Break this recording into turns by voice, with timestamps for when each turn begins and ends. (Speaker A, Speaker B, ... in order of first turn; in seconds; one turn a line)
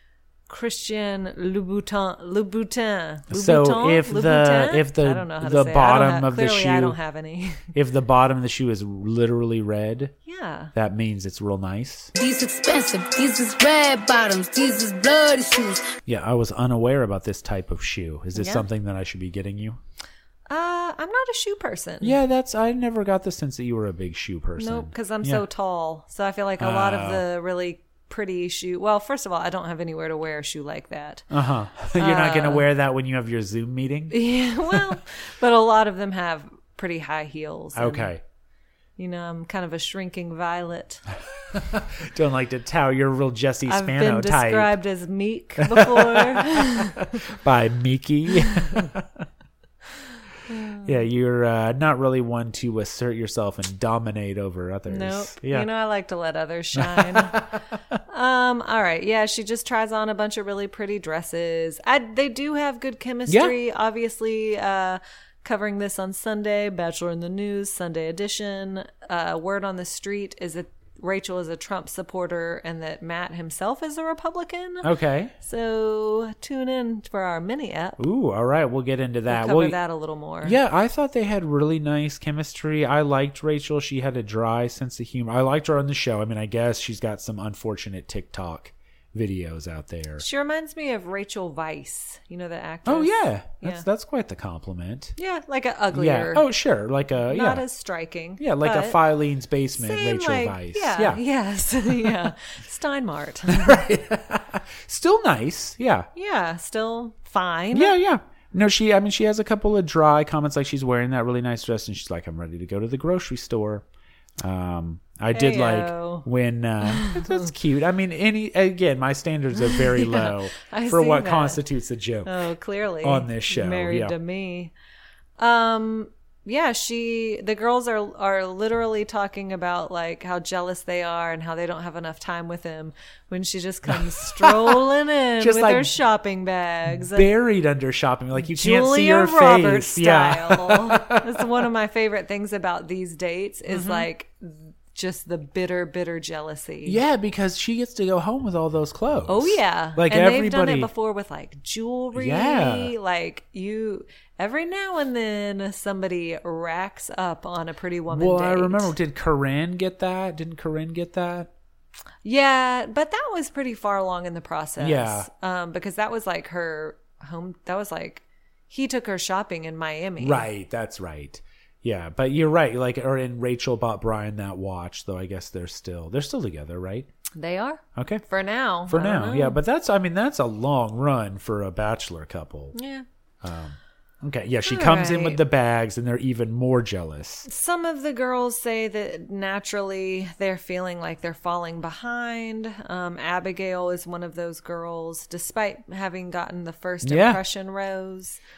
Speaker A: 0.5-7.7
Speaker B: 3.3-7.0
Speaker B: 7.7-10.1
Speaker A: 10.2-10.7
Speaker B: 10.7-12.1
Speaker C: 12.2-15.9
Speaker B: 16.1-19.8
Speaker A: 18.3-18.6
Speaker A: 20.5-22.2
Speaker B: 22.0-25.4
Speaker A: 24.6-31.3
Speaker B: 26.6-27.2
Speaker B: 31.3-34.1
Speaker A: 31.9-32.7
Speaker A: 34.1-38.1
Speaker B: 34.7-35.0
Speaker B: 37.7-38.2
Speaker A: 39.0-41.0
Speaker B: 41.5-44.8
Speaker A: 43.7-47.2
Speaker B: 45.6-49.2
Speaker A: 50.5-50.9
Speaker B: 50.8-55.7
Speaker A: 54.9-57.5
Speaker B: 56.8-57.5
Speaker A: 58.1-74.9
Speaker B: 63.3-63.5
Speaker B: 74.8-75.3
Speaker A: 75.4-78.0
Speaker B: 78.0-79.8
Speaker A: 79.3-80.6
Speaker B: 80.4-90.2
Speaker A: 90.2-93.8
Speaker B: 92.8-95.1
Speaker A: 95.2-96.5
Speaker B: 95.9-97.6
Speaker A: 97.3-99.0
Speaker B: 98.4-101.2
Speaker A: 99.8-103.8
Speaker B: 103.5-106.1
Speaker A: 106.1-107.9
Speaker B: 107.7-113.8
Speaker B: 114.4-122.3
Speaker A: 115.3-116.2
Speaker A: 116.8-117.5
Speaker A: 119.6-121.6
Speaker A: 122.2-124.7
Speaker B: 123.0-124.2
Speaker A: 125.4-137.3
Speaker B: 133.9-134.8
Speaker B: 135.4-135.9
Speaker B: 136.9-141.4
Speaker A: 138.3-147.0
Speaker B: 143.7-144.1
Speaker B: 146.8-150.9
Speaker A: 149.3-158.9
Speaker B: 152.1-152.9
Speaker B: 158.1-161.5
Speaker A: 162.2-170.5
Speaker B: 164.8-165.3
Speaker B: 170.2-177.1
Speaker A: 177.3-179.6
Speaker B: 177.9-178.2
Speaker B: 178.9-182.8
Speaker A: 182.7-183.0
Speaker B: 183.4-187.5
Speaker A: 184.6-185.4
Speaker A: 187.4-198.4
Speaker B: 197.0-197.4